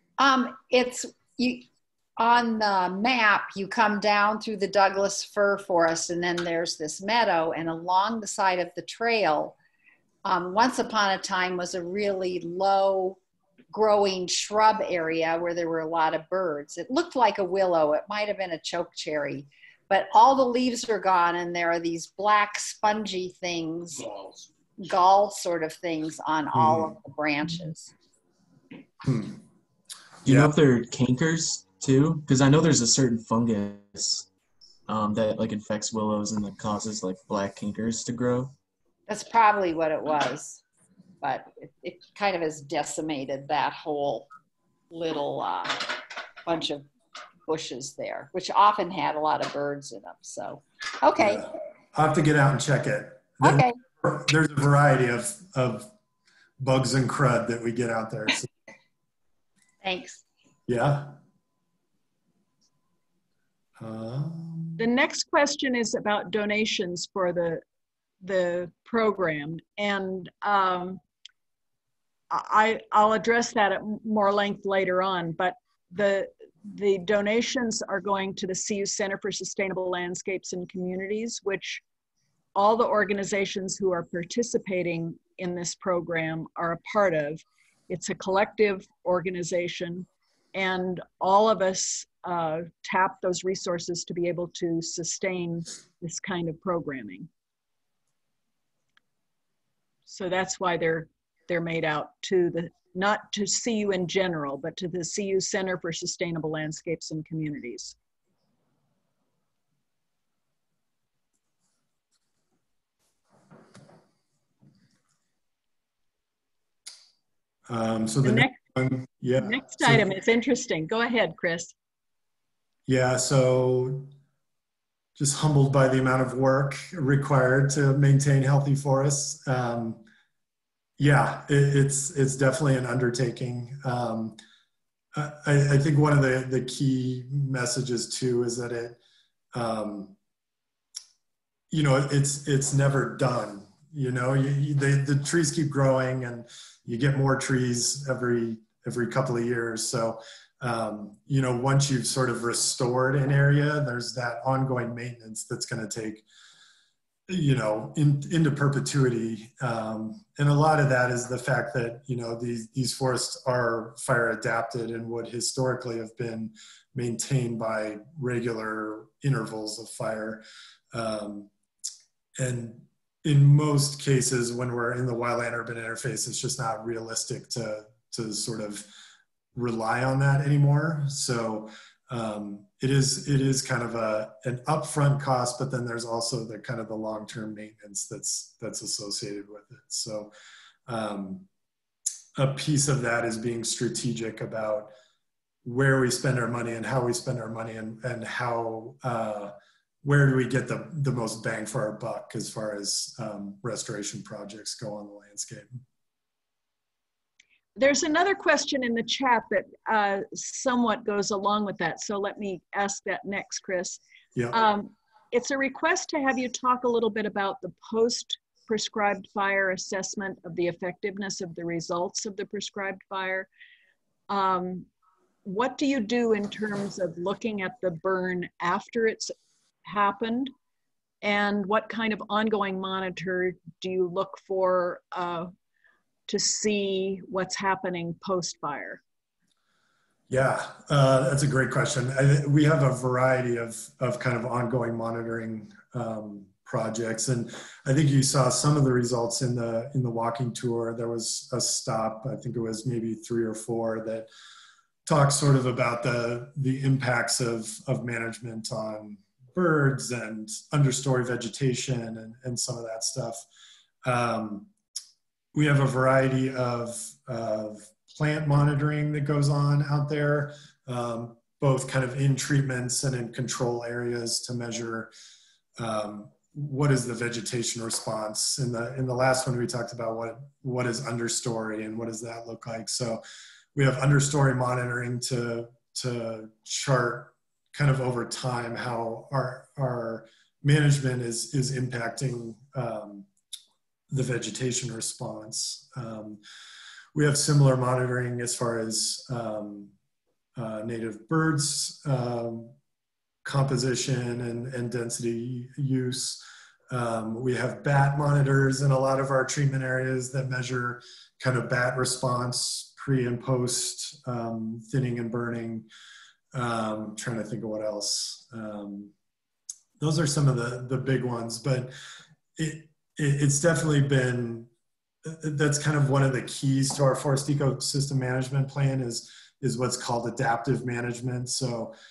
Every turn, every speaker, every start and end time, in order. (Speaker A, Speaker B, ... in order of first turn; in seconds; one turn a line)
Speaker A: 0.2-1.7
Speaker A: 2.2-9.6
Speaker A: 10.2-24.1
Speaker A: 24.8-27.9
Speaker B: 26.5-26.9
Speaker B: 29.0-29.4
Speaker B: 30.2-30.5
Speaker C: 30.2-34.3
Speaker C: 34.9-38.5
Speaker A: 39.1-40.6
Speaker A: 41.2-44.3
Speaker A: 44.9-46.9
Speaker A: 47.5-51.5
Speaker B: 51.2-55.9
Speaker A: 53.4-53.8
Speaker B: 56.6-58.5
Speaker A: 59.8-60.2
Speaker B: 60.7-61.1
Speaker B: 63.8-64.8
Speaker D: 64.8-67.6
Speaker D: 68.2-71.0
Speaker D: 72.3-81.8
Speaker D: 82.5-97.3
Speaker D: 100.1-108.0
Speaker B: 117.7-120.0
Speaker D: 118.2-118.6
Speaker D: 119.4-121.7
Speaker B: 122.9-124.1
Speaker B: 125.2-130.0
Speaker B: 131.0-134.4
Speaker B: 135.1-139.0
Speaker B: 139.5-140.2
Speaker B: 141.7-156.2
Speaker B: 157.3-171.5
Speaker B: 172.4-178.9
Speaker B: 179.6-190.3
Speaker B: 190.9-191.5
Speaker B: 192.4-194.9
Speaker B: 195.6-205.8
Speaker D: 207.8-214.0
Speaker B: 214.3-214.6
Speaker D: 214.5-223.5
Speaker D: 224.3-224.9
Speaker D: 225.4-229.3
Speaker D: 229.8-230.5
Speaker D: 231.2-235.5
Speaker D: 236.3-239.0
Speaker B: 240.3-254.3
Speaker B: 255.1-263.4
Speaker B: 264.1-264.7
Speaker B: 265.5-275.1
Speaker B: 275.8-283.2
Speaker B: 283.8-293.3
Speaker B: 294.1-296.4
Speaker B: 297.1-299.9
Speaker B: 300.6-302.7
Speaker B: 303.4-315.9
Speaker B: 316.5-319.1
Speaker B: 320.0-321.9
Speaker B: 322.6-324.7
Speaker B: 325.2-331.9